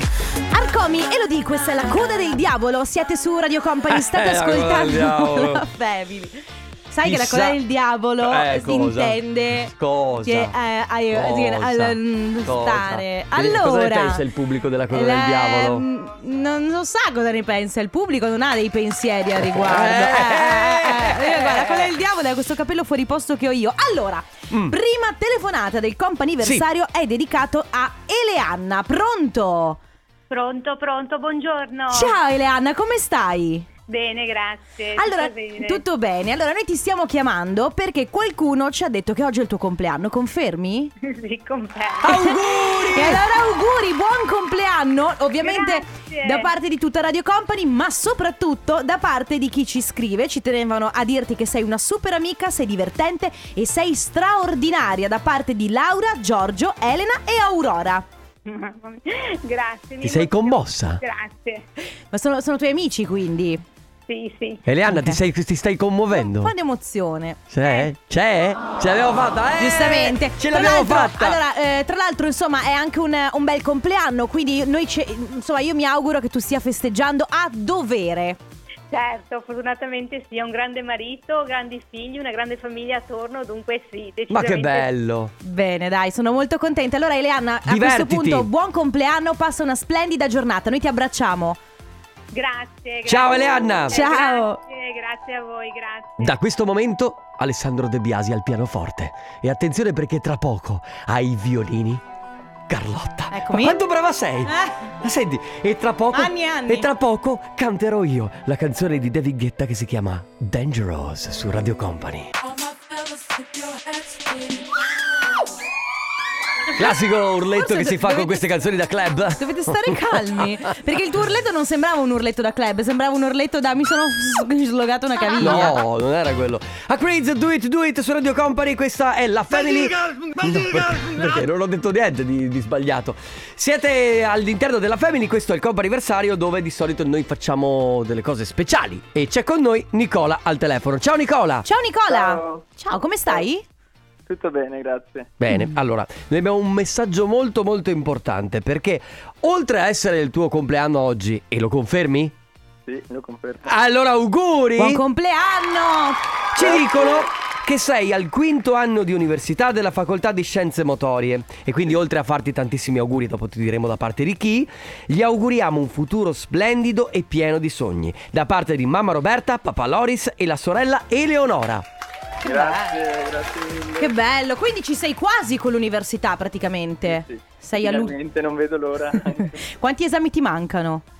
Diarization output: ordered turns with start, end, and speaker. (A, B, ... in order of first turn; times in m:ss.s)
0:00.5-0:14.2 A
0:03.9-0:05.6 B
0:07.0-0:07.6 B
0:08.2-0:10.5 B
0:11.1-0:15.8 B
0:14.9-0:29.8 A
0:19.4-0:21.9 B
0:24.5-0:24.8 B
0:30.3-0:32.2 C
0:31.9-0:33.7 A
0:33.9-0:35.8 C
0:35.0-0:40.9 A
0:41.0-0:42.2 C
0:42.0-0:43.2 B
0:42.0-0:58.0 A
0:45.4-0:46.5 C
0:58.4-1:01.6 C
1:00.0-1:01.0 B
1:02.1-1:03.6 A
1:04.1-1:04.6 C
1:04.6-1:06.5 B
1:04.9-1:05.2 A
1:06.1-1:07.7 A
1:07.5-1:11.4 B
1:09.6-1:18.4 A
1:18.9-1:24.9 C
1:24.3-1:25.3 B
1:25.4-1:31.6 A
1:27.7-1:28.5 B
1:32.3-1:36.3 C
1:33.0-1:34.0 B
1:33.9-1:34.6 A
1:36.2-1:42.0 B
1:42.7-1:52.3 B
1:43.3-1:43.8 A
1:44.4-1:44.8 A
1:46.1-1:46.9 A
1:56.8-2:00.5 B
1:57.5-1:58.4 A
1:59.4-2:05.8 A
2:05.4-2:21.7 B
2:21.6-2:23.6 A
2:22.1-2:22.6 D
2:24.3-2:25.3 D
2:25.4-2:32.3 B
2:32.8-2:33.7 D
2:33.6-2:35.0 B
2:34.8-2:36.2 A
2:36.5-2:51.8 B
2:36.6-2:37.3 D
2:52.4-2:54.1 D
2:52.4-2:53.0 A
2:54.0-2:58.1 A
2:57.1-2:59.6 D
2:59.2-3:01.0 A